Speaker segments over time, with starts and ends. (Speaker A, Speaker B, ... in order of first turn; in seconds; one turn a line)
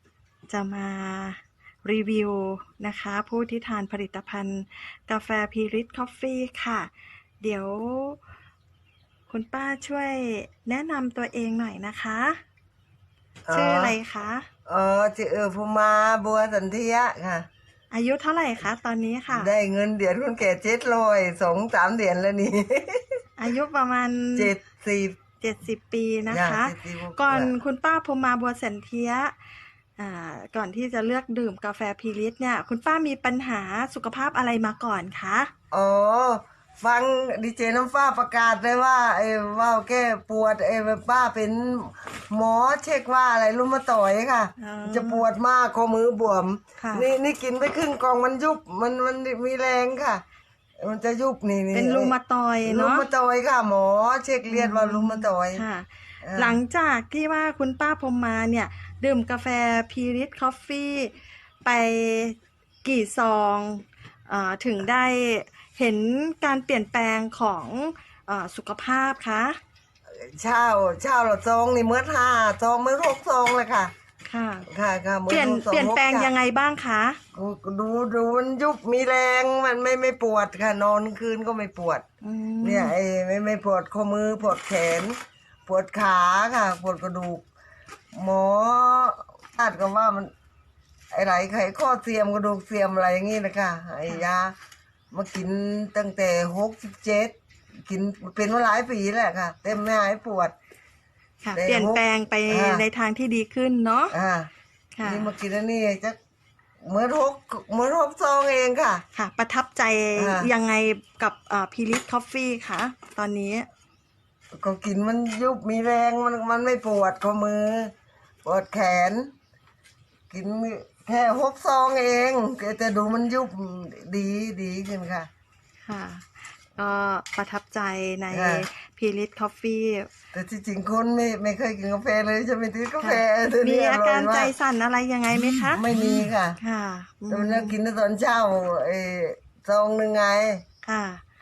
Speaker A: 0.5-6.9
Speaker A: 7.4-8.2
Speaker A: 9.3-12.4
Speaker B: 13.4-13.9
Speaker A: 13.5-14.5
Speaker B: 14.7-17.5
Speaker A: 17.9-19.5
Speaker B: 19.3-23.2
Speaker A: 23.4-24.5
Speaker B: 24.4-25.2
Speaker A: 25.4-29.4
Speaker B: 26.3-27.5
Speaker A: 30.0-35.5
Speaker B: 35.7-50.2
Speaker A: 44.6-45.2
Speaker A: 46.8-47.1
Speaker B: 50.8-55.6
Speaker A: 51.7-53.1
Speaker A: 54.5-61.1
Speaker B: 56.2-56.6
Speaker A: 61.6-69.6
Speaker B: 70.1-73.9
Speaker A: 74.3-74.7
Speaker B: 74.7-76.3
Speaker A: 75.3-77.2
Speaker B: 77.3-82.0
Speaker A: 82.2-82.9
Speaker B: 82.6-87.4
Speaker B: 88.1-90.3
Speaker B: 91.1-94.5
Speaker B: 95.1-100.5
Speaker A: 101.4-104.2
Speaker B: 101.5-102.8
Speaker B: 104.1-104.5
Speaker A: 105.0-105.3
Speaker B: 105.0-106.2
Speaker B: 106.8-109.0
Speaker A: 109.1-113.7
Speaker B: 110.2-110.5
Speaker B: 114.5-117.9
Speaker B: 118.4-119.3
Speaker B: 120.3-125.3
Speaker A: 125.8-130.1
Speaker B: 128.3-128.7
Speaker B: 130.3-134.5
Speaker A: 133.0-135.8
Speaker B: 135.7-136.6
Speaker A: 136.6-137.8
Speaker B: 137.3-140.6
Speaker A: 140.8-141.2